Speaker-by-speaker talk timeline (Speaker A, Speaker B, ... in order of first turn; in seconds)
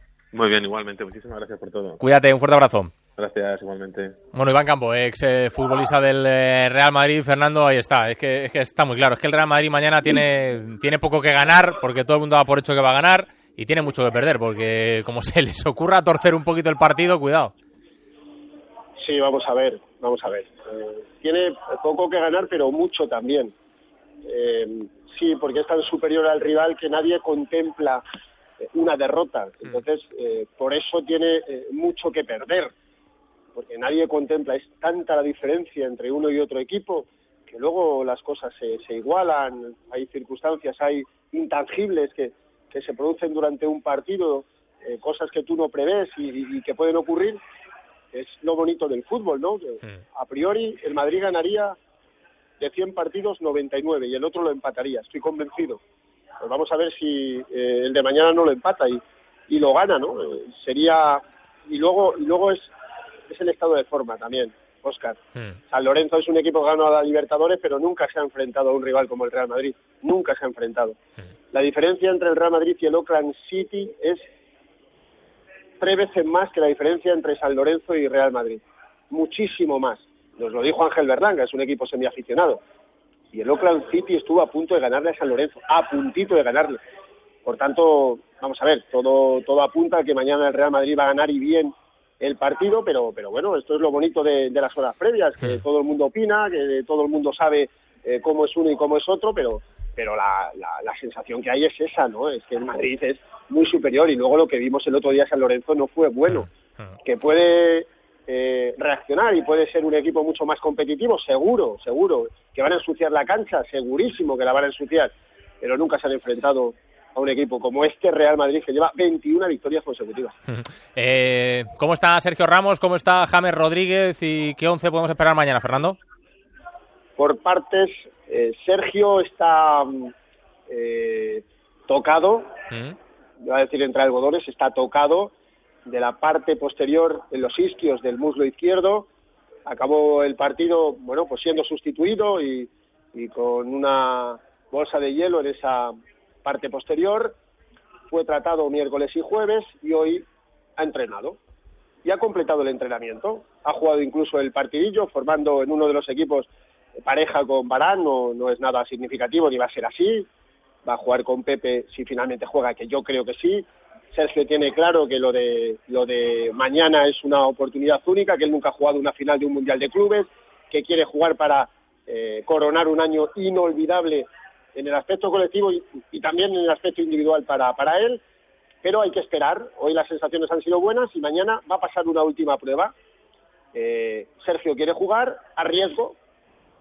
Speaker A: 0.3-2.0, 3.1-4.2
Speaker B: 2.0-2.9, 4.3-17.5, 106.3-106.9, 120.5-126.0, 132.7-132.9
Speaker C: 19.0-23.5, 24.2-28.0, 28.7-32.7, 33.5-47.4, 48.1-51.8, 52.6-55.8, 56.4-62.7, 63.3-71.0, 71.5-74.2, 75.8-82.6, 83.3-86.8, 87.4-106.5, 107.0-120.3, 127.2-130.1, 130.7-132.5, 133.4-135.3, 135.8-139.1, 139.7-145.9, 146.4-147.3, 148.1-150.2, 150.8-151.4, 152.0-156.5, 157.0-160.3, 160.8-178.2, 178.8-182.9, 183.7-186.2